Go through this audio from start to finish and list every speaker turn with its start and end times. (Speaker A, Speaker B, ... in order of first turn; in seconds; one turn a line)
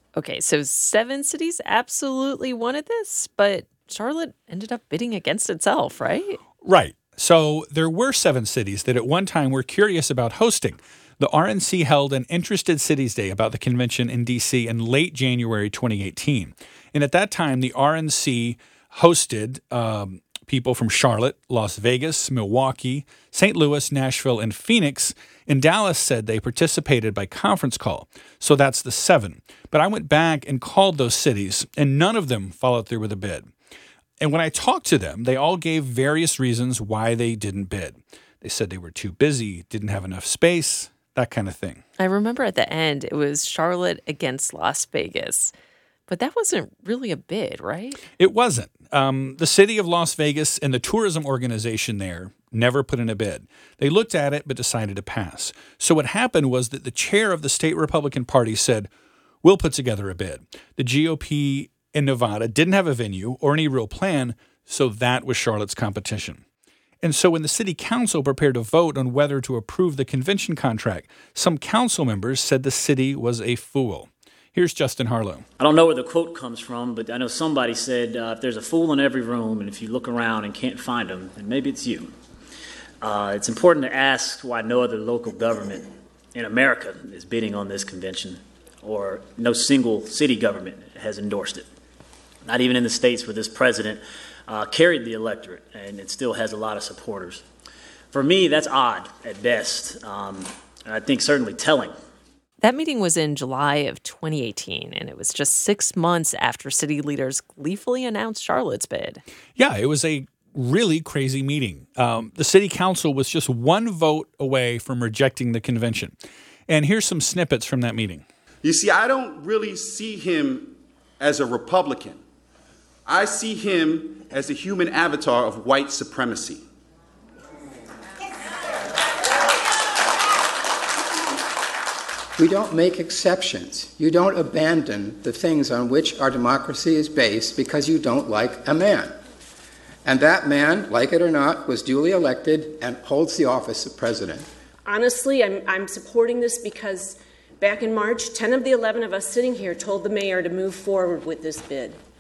Speaker A: 0.2-6.4
Speaker B: 6.6-33.5
Speaker B: 34.2-41.8
Speaker A: 42.0-45.5
Speaker A: 46.1-48.0
Speaker B: 48.2-58.9
Speaker B: 59.4-66.4
Speaker B: 67.0-75.5
Speaker C: 75.6-82.1
Speaker C: 83.0-91.7
Speaker C: 92.5-97.4
Speaker C: 98.1-101.9
Speaker A: 102.6-109.2
Speaker B: 109.6-116.2
Speaker B: 116.7-118.2
Speaker D: 118.7-122.2
Speaker D: 123.1-126.6
Speaker E: 132.4-139.1
Speaker E: 140.1-144.4
Speaker F: 144.8-152.0